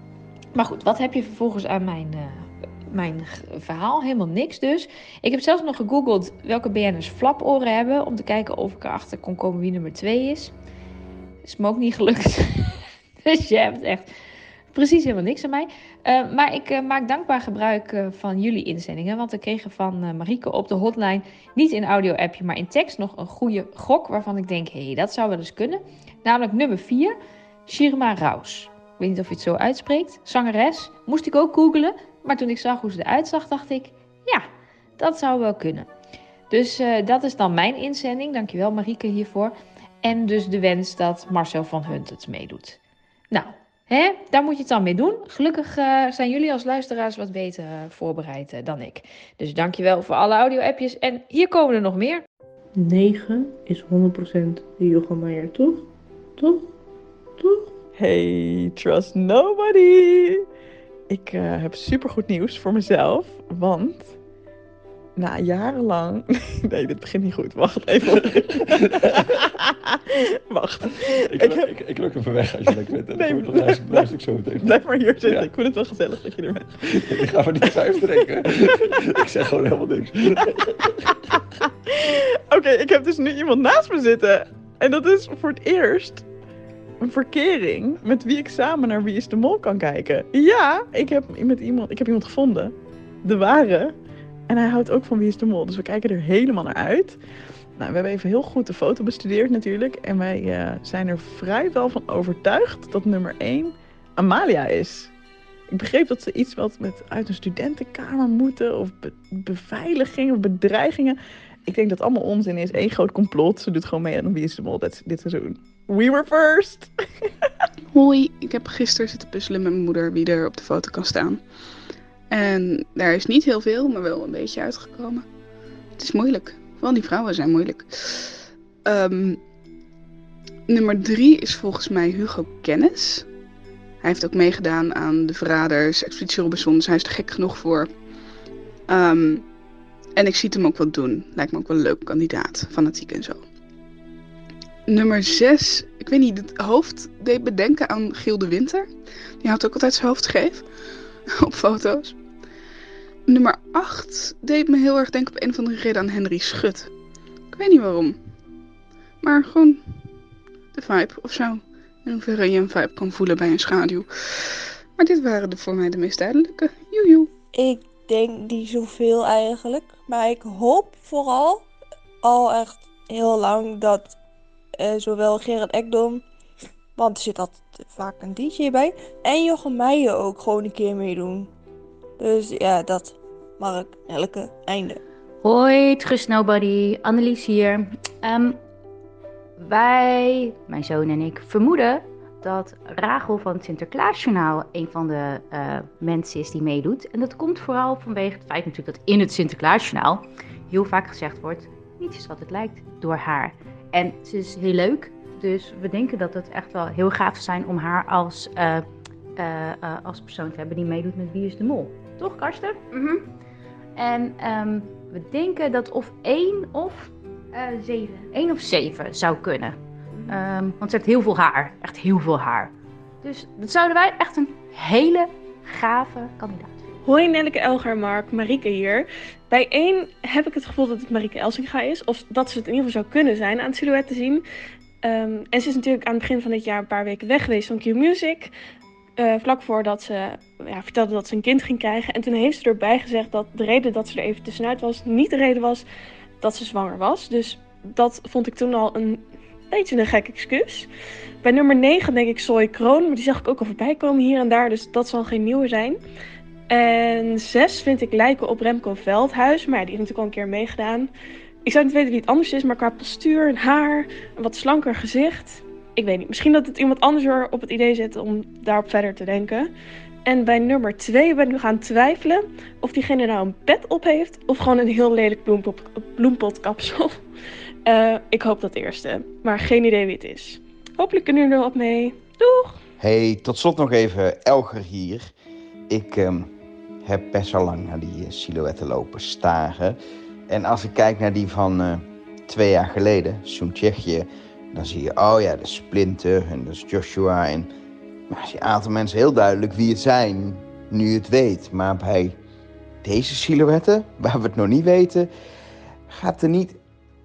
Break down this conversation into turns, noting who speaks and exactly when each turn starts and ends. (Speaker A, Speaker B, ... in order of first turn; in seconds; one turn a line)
Speaker A: 0.5-10.5
Speaker A: 11.4-14.1
Speaker A: 14.7-34.5
Speaker A: 35.0-35.9
Speaker A: 36.5-42.8
Speaker A: 43.3-52.2
Speaker B: 52.8-55.8
Speaker C: 58.0-60.4
Speaker C: 61.1-64.2
Speaker C: 65.2-71.8
Speaker D: 71.4-75.5
Speaker C: 72.6-79.3
Speaker D: 77.1-80.2
Speaker C: 80.4-86.3
Speaker C: 87.0-94.0
Speaker C: 94.5-97.2
Speaker C: 97.8-105.1
Speaker C: 105.7-117.3
Speaker E: 117.9-121.5
Speaker E: 122.3-125.2
Speaker E: 126.0-129.4
Speaker E: 130.7-133.3
Speaker E: 134.0-137.9
Speaker E: 138.9-139.4
Speaker E: 140.2-143.4
Speaker E: 144.9-148.9
Speaker E: 149.4-150.7
Speaker E: 151.3-152.2
Speaker E: 153.3-156.9
Speaker E: 157.5-158.2
Speaker E: 159.2-159.8
Speaker E: 160.8-164.1
Speaker E: 165.0-167.3
Speaker F: 167.6-171.6
Speaker F: 172.3-174.1
Speaker F: 174.8-176.2
Speaker F: 177.0-181.5
Speaker F: 182.2-185.0
Speaker G: 185.4-188.6
Speaker G: 189.6-208.8
Speaker G: 209.4-213.2
Speaker G: 214.0-226.7
Speaker H: 227.1-234.4
Speaker H: 235.0-238.5
Speaker H: 239.2-245.8
Speaker H: 246.4-250.9
Speaker H: 251.4-256.0
Speaker H: 256.7-261.1
Speaker H: 261.6-269.7
Speaker H: 270.3-277.1
Speaker H: 277.9-282.8
Speaker I: 283.0-285.3
Speaker I: 285.9-286.5
Speaker I: 287.1-297.7
Speaker I: 298.3-302.4
Speaker I: 303.0-305.3
Speaker I: 306.1-306.8